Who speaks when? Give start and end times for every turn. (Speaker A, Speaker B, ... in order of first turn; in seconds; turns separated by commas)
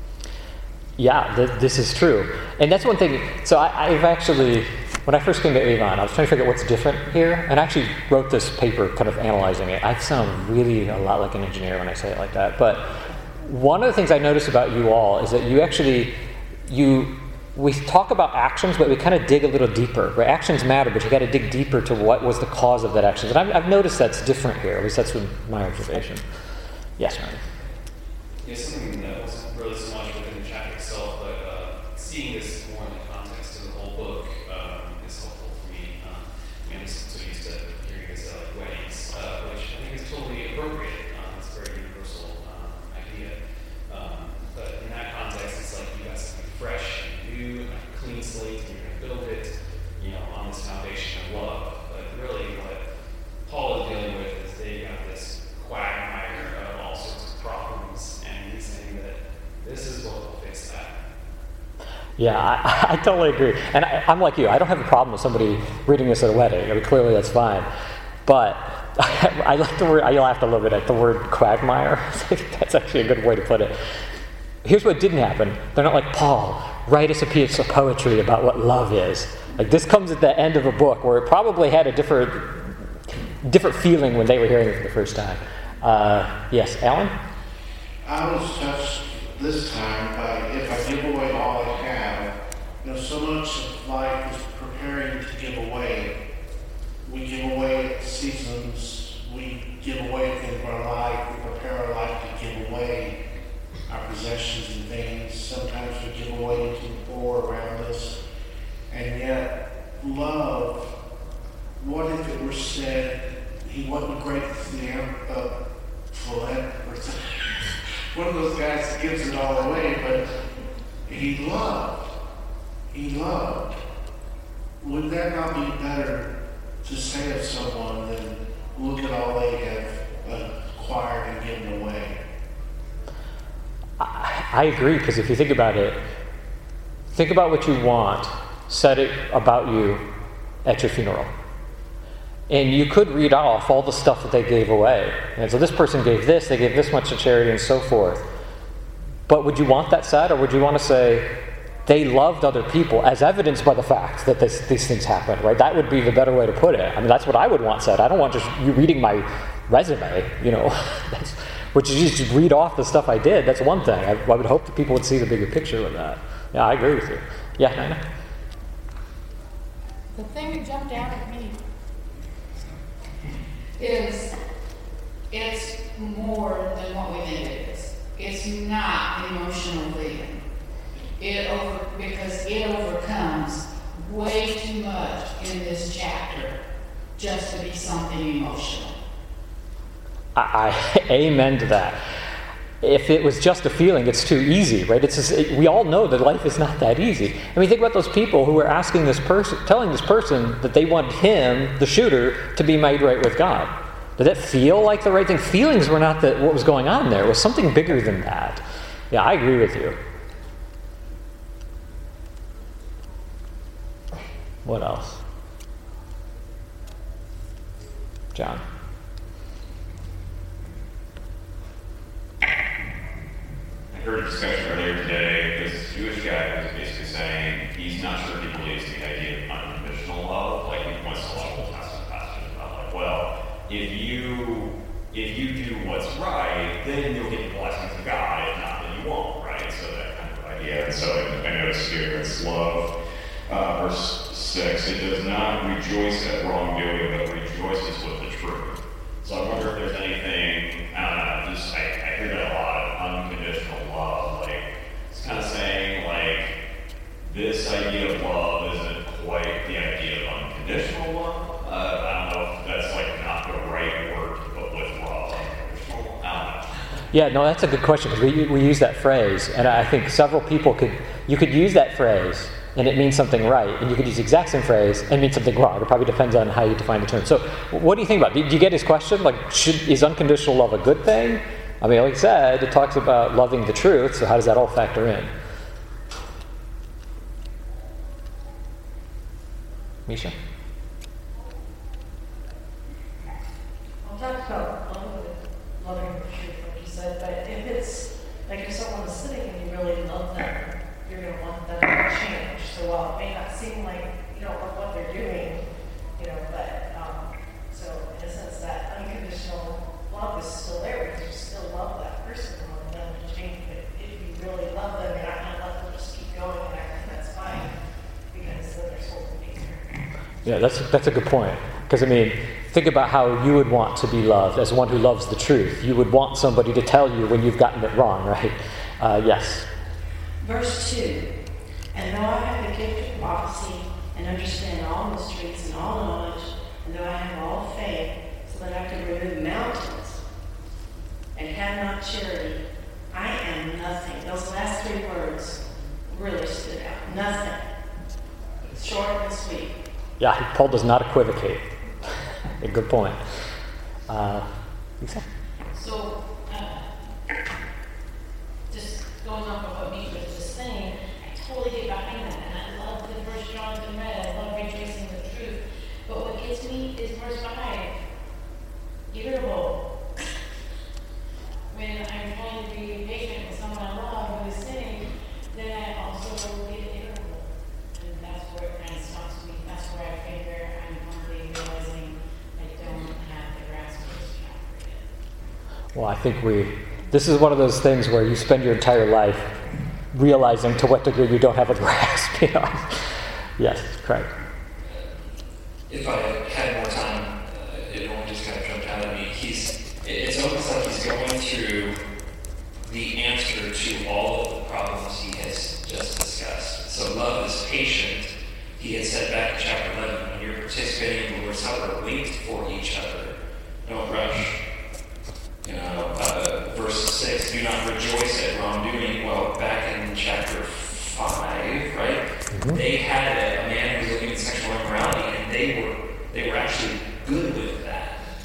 Speaker A: 1.0-26.2, Speaker A: 27.0-27.4, Speaker B: 28.4-52.8, Speaker B: 53.5-61.0, Speaker A: 62.2-67.7, Speaker A: 68.2-73.8, Speaker A: 74.7-87.1, Speaker C: 88.0-96.1, Speaker C: 97.0-103.2, Speaker C: 103.9-108.2, Speaker C: 108.9-110.9, Speaker C: 111.8-115.5, Speaker C: 116.1-120.2, Speaker C: 121.1-122.1, Speaker C: 122.9-123.8, Speaker C: 124.8-126.3, Speaker C: 126.8-132.2, Speaker A: 134.0-136.0, Speaker A: 137.1-140.1, Speaker A: 140.7-141.3, Speaker A: 142.5-148.3, Speaker A: 149.3-168.0, Speaker D: 170.1-171.6, Speaker D: 173.8-174.3, Speaker D: 175.3-180.4, Speaker D: 181.2-186.6, Speaker D: 187.2-189.0, Speaker A: 190.3-192.0, Speaker A: 192.8-210.0, Speaker A: 214.7-215.2, Speaker A: 218.3-218.6, Speaker E: 223.9-242.9, Speaker E: 243.5-256.5, Speaker E: 257.2-266.7, Speaker A: 267.1-285.3, Speaker A: 290.1-290.4, Speaker F: 294.0-305.6, Speaker F: 306.2-317.7, Speaker F: 318.3-319.8, Speaker A: 320.4-329.7, Speaker F: 330.4-331.3, Speaker F: 331.9-340.2, Speaker F: 341.4-345.6, Speaker F: 346.1-347.6, Speaker F: 348.7-349.8, Speaker A: 350.2-351.7, Speaker A: 352.6-353.2, Speaker A: 354.1-354.5, Speaker G: 355.7-356.9, Speaker G: 358.7-368.0, Speaker G: 369.1-369.8, Speaker G: 371.7-385.1, Speaker A: 385.9-389.6, Speaker A: 390.1-393.0, Speaker A: 393.6-394.3, Speaker H: 395.9-401.9, Speaker H: 402.8-414.6, Speaker H: 415.6-428.2, Speaker A: 422.5-422.8